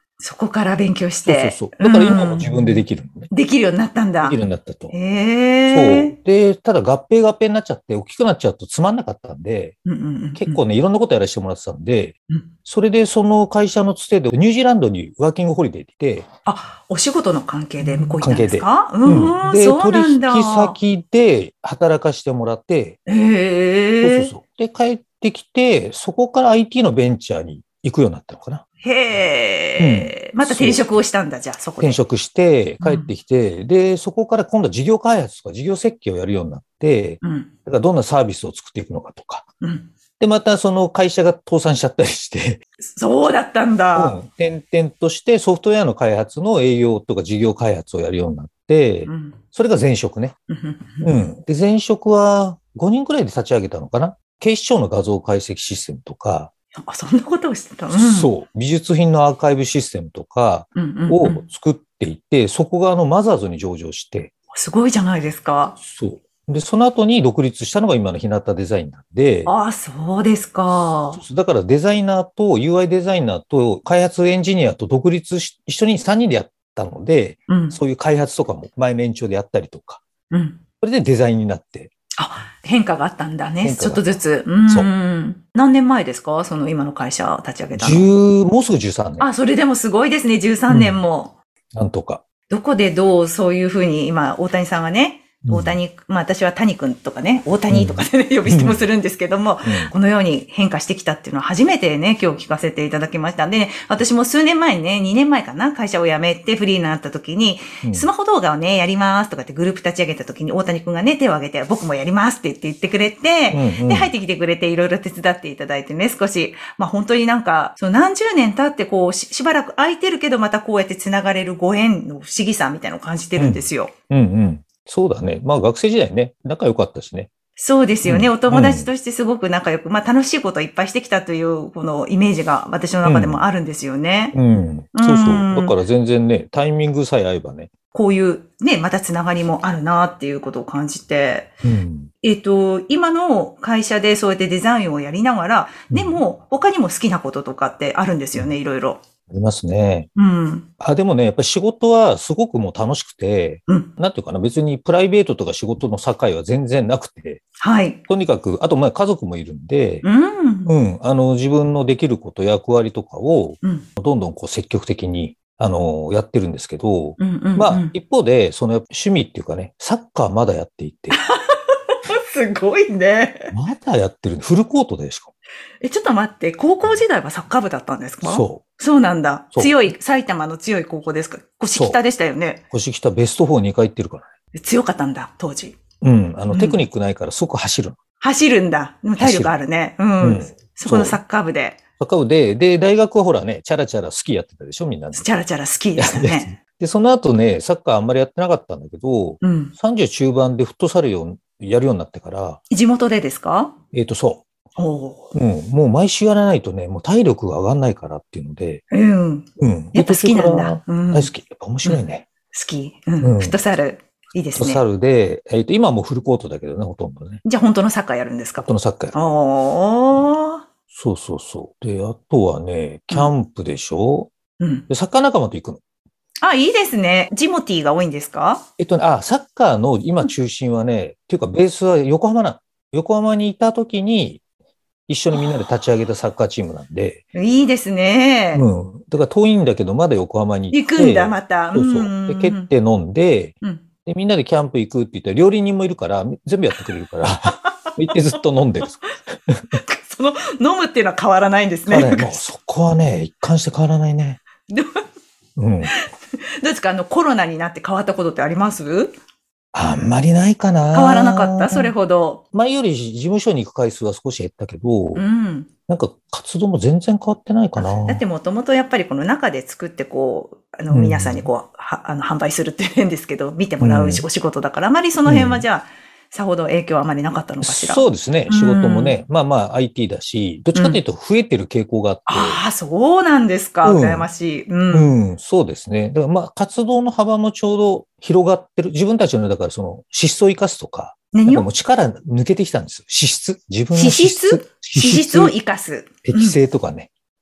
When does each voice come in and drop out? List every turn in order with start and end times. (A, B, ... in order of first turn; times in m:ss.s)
0:00.2-0:04.4 A
0:01.2-0:03.3 B
0:04.2-0:05.0 B
0:04.9-0:06.2 A
0:05.7-0:09.8 B
0:09.8-0:10.6 A
0:10.4-0:16.3 B
0:16.4-0:20.8 A
0:17.8-0:23.0 B
0:23.1-0:24.3 A
0:24.0-0:28.6 B
0:28.8-0:32.0 A
0:29.8-0:30.9 B
0:31.8-0:39.5 B
0:32.8-0:33.1 A
0:37.2-0:37.5 A
0:39.6-0:39.9 A
0:40.2-0:42.6 B
0:42.9-0:44.2 A
0:44.0-0:50.4 B
0:49.1-0:49.4 A
0:50.5-0:51.1 A
0:51.0-0:56.5 B
0:56.8-0:58.3 A
0:57.9-1:04.3 B
1:00.8-1:01.4 A
1:04.5-1:05.8 A
1:05.8-1:09.5 B
1:09.5-1:11.2 A
1:11.1-1:20.0 B
1:17.5-1:17.8 A
1:20.3-1:20.6 A
1:20.8-1:21.9 B
1:22.2-1:28.1 A
1:23.6-1:24.2 B
1:27.8-1:29.3 B
1:29.2-1:31.3 A
1:30.7-1:31.0 B
1:31.7-1:32.2 B
1:32.5-2:03.9 A
1:35.4-1:35.8 B
1:37.7-1:38.8 B
1:39.6-1:39.9 B
1:47.8-1:48.1 B
1:53.5-1:54.1 B
2:03.4-2:07.3 B
2:07.6-2:14.4 A
2:08.0-2:08.9 B
2:13.0-2:13.4 B
2:14.3-2:17.7 B
2:15.0-2:15.8 A
2:17.9-2:21.5 A
2:21.6-2:22.1 B
2:22.2-2:29.0 A
2:25.9-2:26.2 B
2:29.3-2:30.1 B
2:30.2-2:30.7 A
2:30.8-2:37.4 B
2:37.6-2:38.0 A
2:38.1-2:40.1 B
2:40.0-2:40.7 A
2:40.7-2:51.2 B
2:47.2-2:47.9 A
2:51.1-2:53.5 A
2:53.5-2:55.3 B
2:55.8-3:02.6 A
2:58.2-2:58.6 B
2:59.5-2:59.9 B
3:01.7-3:02.0 B
3:02.7-3:04.3 B
3:04.5-3:05.8 A
3:06.0-3:08.0 B
3:06.5-3:06.8 A
3:08.2-3:11.8 A
3:09.2-3:09.6 B
3:10.2-3:11.2 B
3:12.0-3:15.3 B
3:15.1-3:16.6 A
3:16.0-3:22.6 B
3:19.4-3:19.7 A
3:22.7-3:23.8 A
3:23.9-3:24.4 B
3:24.8-3:25.3 A
3:25.3-3:28.8 B
3:28.9-3:31.3 A
3:29.6-3:32.3 B
3:31.8-3:34.8 A
3:33.2-3:33.6 B
3:34.6-3:37.4 B
3:37.4-3:40.7 A
3:38.6-3:39.2 B
3:40.9-3:44.3 B
3:44.6-3:44.9 A
3:44.9-3:45.8 B
3:46.4-3:48.6 A
3:48.8-3:54.4 B
3:55.1-3:57.2 B
3:55.3-3:55.6 A
3:57.3-3:58.6 A
3:58.5-4:03.6 B
4:00.7-4:02.7 A
4:04.1-4:09.8 B
4:07.5-4:08.1 A
4:09.7-4:12.4 A
4:11.9-4:14.4 B
4:14.7-4:15.0 A
4:15.6-4:15.9 B
4:15.8-4:19.1 A
4:19.7-4:21.9 B
4:20.9-4:22.4 A
4:22.5-4:25.2 B
4:25.2-4:25.7 A
4:25.9-4:28.2 B
4:27.8-4:39.2 A
4:30.9-4:31.5 B
4:33.8-4:34.2 B
4:35.2-4:35.7 B
4:37.6-4:42.6 B
4:40.7-4:41.0 A
4:42.3-4:45.1 A
4:43.8-4:44.3 B
4:44.9-4:55.5 B
4:51.3-4:51.7 A
4:53.9-4:56.6 A
4:56.2-4:57.1 B